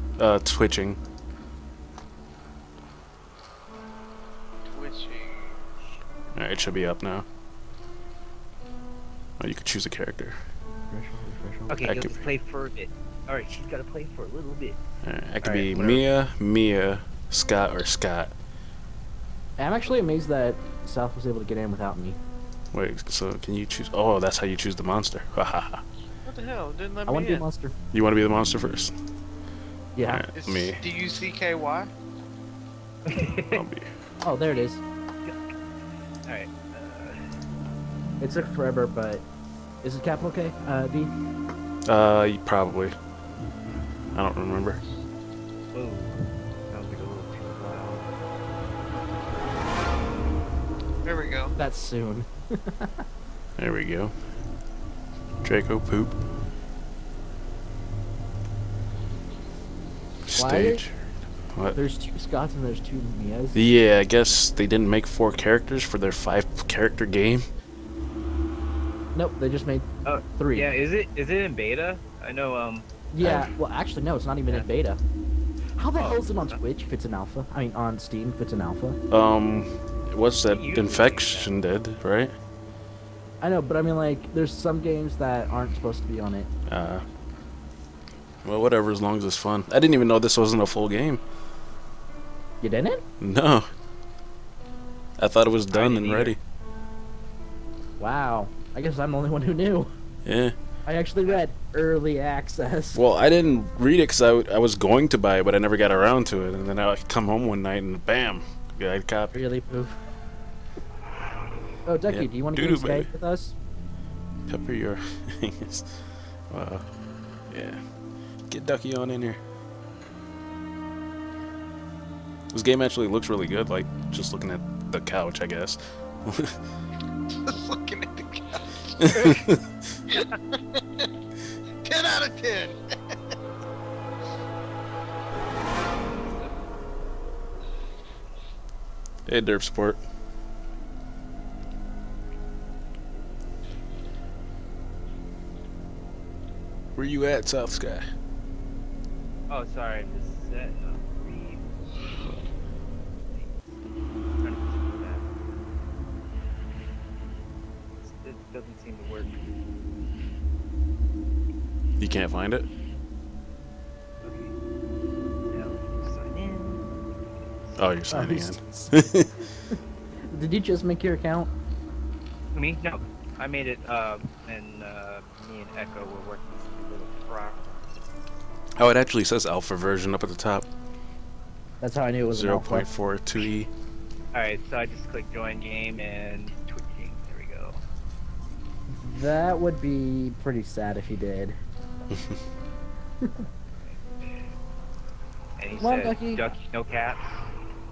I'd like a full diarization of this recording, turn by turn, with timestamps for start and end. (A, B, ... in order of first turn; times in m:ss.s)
0:00.2-0:01.0 A
0:04.7-0:05.6 B
0:06.4-0:07.3 A
0:09.4-0:10.4 A
0:10.9-0:11.9 C
0:11.7-0:14.8 D
0:11.8-0:12.3 A
0:15.0-0:18.4 A
0:15.4-0:15.8 D
0:15.7-0:16.0 B
0:19.6-0:22.2 C
0:22.7-0:25.8 A
0:26.2-0:27.4 B
0:27.1-0:27.8 C
0:27.9-0:28.9 A
0:30.0-0:30.3 C
0:30.1-0:30.8 A
0:30.4-0:31.9 B
0:33.1-0:33.6 D
0:33.5-0:33.9 A
0:34.2-0:34.8 C
0:36.3-0:37.4 D
0:38.2-0:39.2 C
0:39.8-0:41.1 C
0:41.9-0:43.0 A
0:44.1-0:44.8 A
0:45.7-0:48.1 D
0:51.0-0:51.6 B
0:51.6-0:52.9 C
0:53.6-0:54.1 A
0:55.4-0:56.2 A
1:00.2-1:01.0 A
1:00.4-1:00.8 C
1:01.7-1:03.6 C
1:03.5-1:07.5 A
1:09.1-1:10.7 C
1:10.0-1:12.9 D
1:13.1-1:15.0 C
1:13.2-1:13.5 A
1:14.5-1:14.7 D
1:15.8-1:19.0 C
1:16.0-1:16.6 D
1:19.1-1:22.4 A
1:20.5-1:21.6 D
1:23.4-1:26.5 C
1:26.7-1:27.0 A
1:28.4-1:31.2 A
1:32.6-1:33.0 C
1:33.2-1:33.7 A
1:35.2-1:36.4 A
1:35.7-1:36.4 D
1:38.0-1:39.9 C
1:40.2-1:40.6 A
1:40.8-1:43.0 C
1:42.9-1:49.5 A
1:49.3-1:50.0 C
1:51.9-1:53.6 C
1:52.1-1:53.1 A
1:54.5-1:56.8 A
1:57.5-1:57.8 A
1:58.5-1:59.4 A
2:02.5-2:06.6 A
2:07.4-2:09.2 B
2:09.1-2:09.6 A
2:09.1-2:09.4 D
2:10.1-2:11.1 B
2:11.8-2:13.2 B
2:19.3-2:20.0 A
2:27.0-2:28.0 A
2:29.5-2:32.5 D
2:33.2-2:33.8 D
2:34.4-2:35.3 D
2:38.0-2:39.6 D
2:42.0-2:42.7 A
2:44.2-2:44.5 D
2:45.4-2:46.9 D
2:47.6-2:47.9 D
2:47.8-2:49.3 A
2:48.1-2:51.5 C
2:52.5-2:57.8 D
2:58.8-3:00.7 A
3:01.8-3:02.9 C
3:02.3-3:03.7 A
3:04.3-3:07.8 D
3:08.9-3:11.6 C
3:13.8-3:14.5 D
3:15.6-3:17.5 D
3:15.8-3:16.4 C